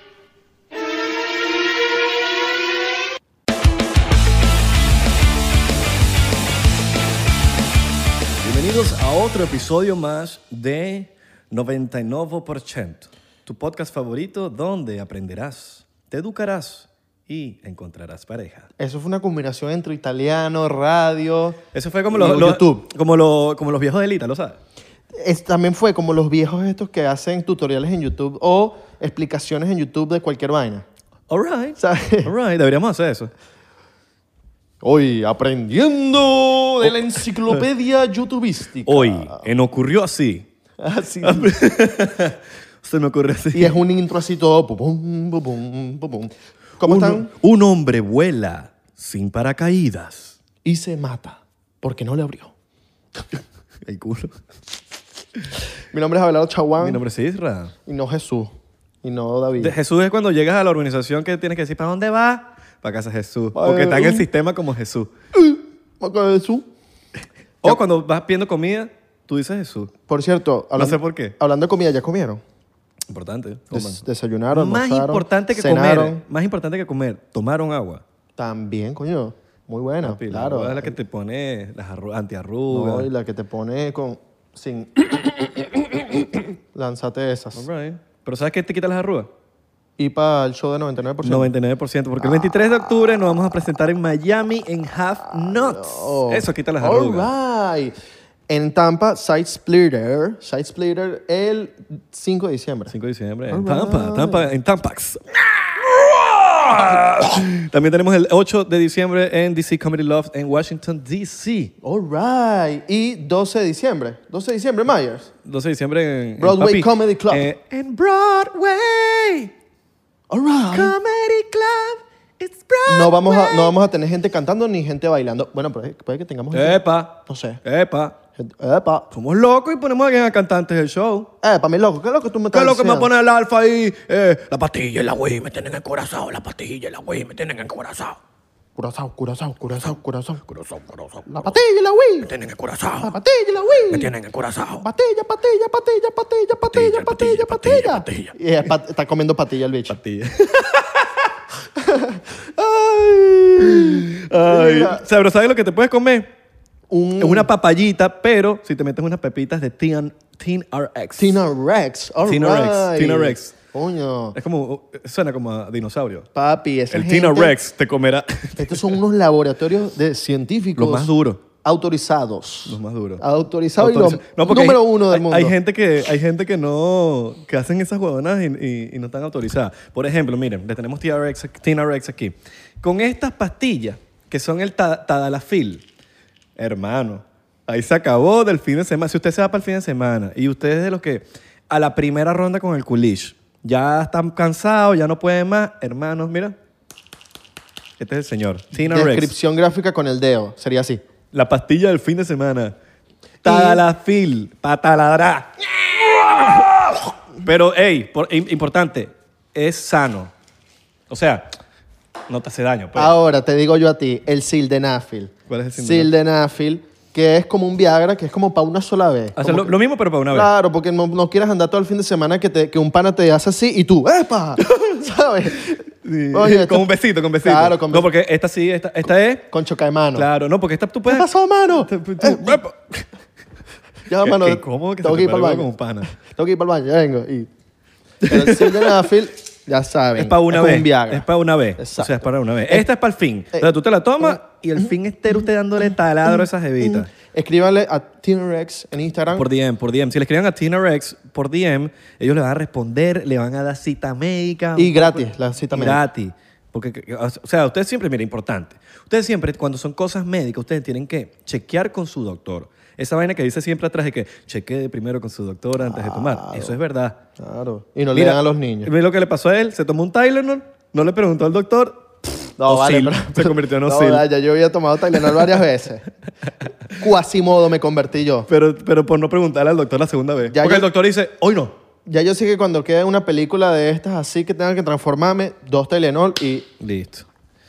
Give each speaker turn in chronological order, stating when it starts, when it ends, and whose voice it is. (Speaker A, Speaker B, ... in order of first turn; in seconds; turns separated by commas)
Speaker A: 8.4-18.7, Speaker B: 18.8-22.9, Speaker A: 21.7-24.6, Speaker B: 25.1-30.8, Speaker A: 31.3-33.3, Speaker B: 31.8-32.3, Speaker B: 34.8-39.5, Speaker A: 36.8-37.6, Speaker A: 38.9-40.5, Speaker B: 40.8-41.6, Speaker A: 41.2-43.8, Speaker B: 43.5-47.3, Speaker A: 46.8-50.4, Speaker B: 50.6-52.5, Speaker A: 53.8-54.3, Speaker B: 55.9-57.0, Speaker A: 56.8-57.7, Speaker B: 57.9-58.5, Speaker B: 59.0-59.8, Speaker A: 59.6-65.1, Speaker B: 63.5-64.3, Speaker B: 65.3-66.7, Speaker A: 67.6-69.9, Speaker B: 70.1-72.4, Speaker A: 70.8-71.3, Speaker A: 73.1-78.0, Speaker B: 73.7-76.2, Speaker B: 78.4-80.9, Speaker A: 80.0-83.1, Speaker B: 82.7-87.7, Speaker A: 87.5-89.3, Speaker B: 90.0-91.5, Speaker A: 91.2-97.3, Speaker B: 95.3-97.9, Speaker B: 98.5-102.9, Speaker A: 102.9-111.7, Speaker B: 103.5-104.5, Speaker B: 111.8-115.3, Speaker A: 115.4-119.5, Speaker B: 116.4-117.5, Speaker B: 120.3-121.0, Speaker A: 120.7-123.8, Speaker B: 122.9-127.6, Speaker A: 126.5-128.2, Speaker B: 128.4-129.1, Speaker A: 129.1-131.3, Speaker B: 131.4-133.1, Speaker A: 132.5-138.2, Speaker B: 138.8-140.4, Speaker A: 140.5-141.5, Speaker B: 141.2-142.3, Speaker A: 142.2-143.2, Speaker B: 143.0-144.1, Speaker A: 143.9-144.8, Speaker B: 144.8-150.0, Speaker A: 146.7-148.3, Speaker A: 149.9-151.3, Speaker B: 151.8-155.1, Speaker A: 153.6-156.3, Speaker B: 156.9-157.5, Speaker A: 157.2-161.4, Speaker B: 161.2-164.4, Speaker A: 162.2-163.5, Speaker A: 164.3-166.3, Speaker B: 166.3-167.5, Speaker A: 166.9-169.0, Speaker B: 168.6-171.1, Speaker A: 170.8-171.4, Speaker B: 171.6-175.6, Speaker A: 172.7-173.2, Speaker A: 173.8-185.8, Speaker A: 186.6-196.6, Speaker A: 198.0-199.3, Speaker B: 198.7-201.0, Speaker A: 201.3-202.8, Speaker A: 203.4-210.3, Speaker B: 203.4-203.8, Speaker A: 211.1-211.6, Speaker A: 212.3-213.2, Speaker B: 212.9-219.8, Speaker A: 215.5-216.1, Speaker A: 219.3-220.5, Speaker B: 220.3-226.9, Speaker A: 224.7-225.0, Speaker A: 225.7-229.5, Speaker B: 227.4-228.1, Speaker B: 229.5-230.3, Speaker A: 230.1-231.3, Speaker B: 231.1-232.6, Speaker A: 231.8-233.1, Speaker B: 234.1-237.5, Speaker A: 234.2-236.1, Speaker B: 238.2-241.2, Speaker A: 238.2-239.1, Speaker A: 240.2-247.1, Speaker B: 241.8-242.8, Speaker B: 246.8-249.5, Speaker A: 249.3-267.2, Speaker B: 254.8-256.0, Speaker B: 265.8-266.7, Speaker B: 267.4-268.9, Speaker A: 268.1-274.3, Speaker B: 272.6-276.1, Speaker A: 275.2-275.5, Speaker B: 276.9-278.5, Speaker A: 278.5-281.7, Speaker B: 280.5-280.9, Speaker B: 282.1-286.7, Speaker A: 286.8-287.3